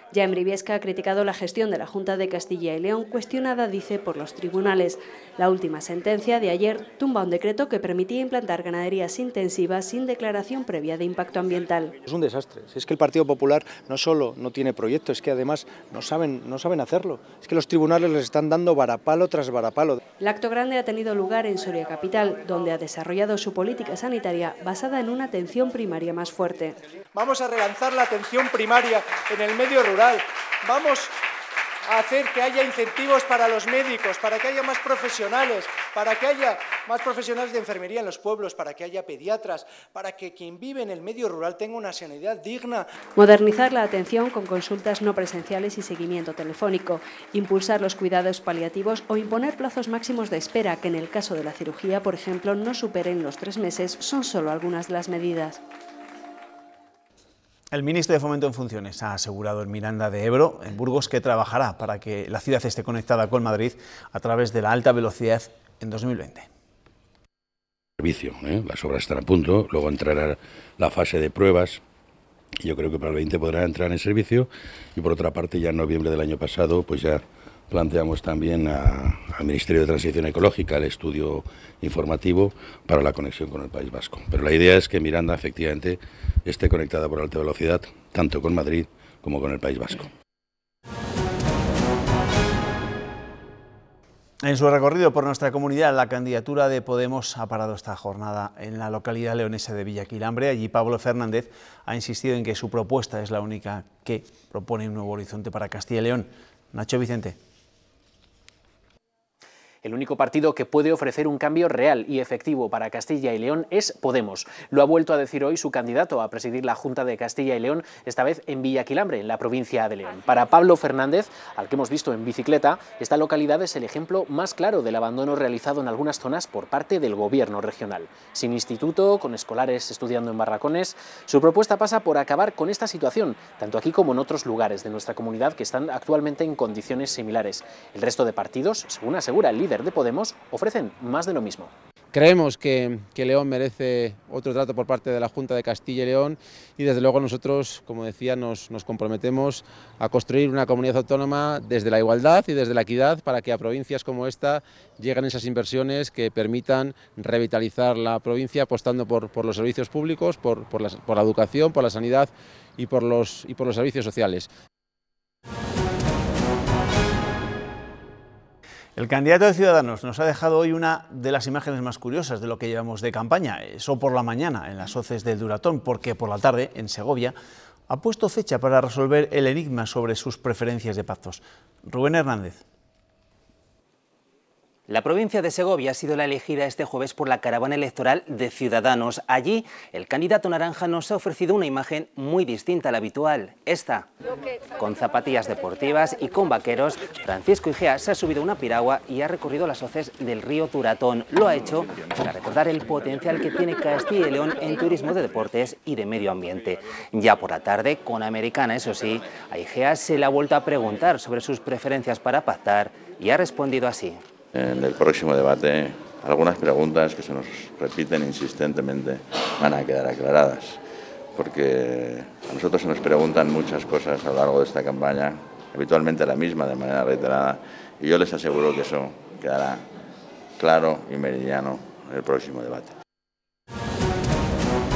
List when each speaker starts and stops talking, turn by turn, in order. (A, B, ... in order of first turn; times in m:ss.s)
0:00.1-0:12.0 A
0:12.0-0:20.0 B
0:20.2-0:26.8 A
0:27.1-0:31.1 C
0:31.8-0:42.8 C
0:43.2-0:55.6 A
0:57.7-1:06.5 D
1:08.0-1:11.8 E
1:12.6-1:30.1 E
1:34.4-1:47.4 D
1:49.8-2:21.7 F
2:22.1-2:44.5 G
2:49.0-2:57.4 D
2:57.9-3:02.6 D
3:04.9-3:14.1 H
3:14.8-3:34.2 H
3:34.5-3:40.5 I
3:41.4-3:41.6 I
3:42.3-3:49.8 I
3:50.6-3:52.9 I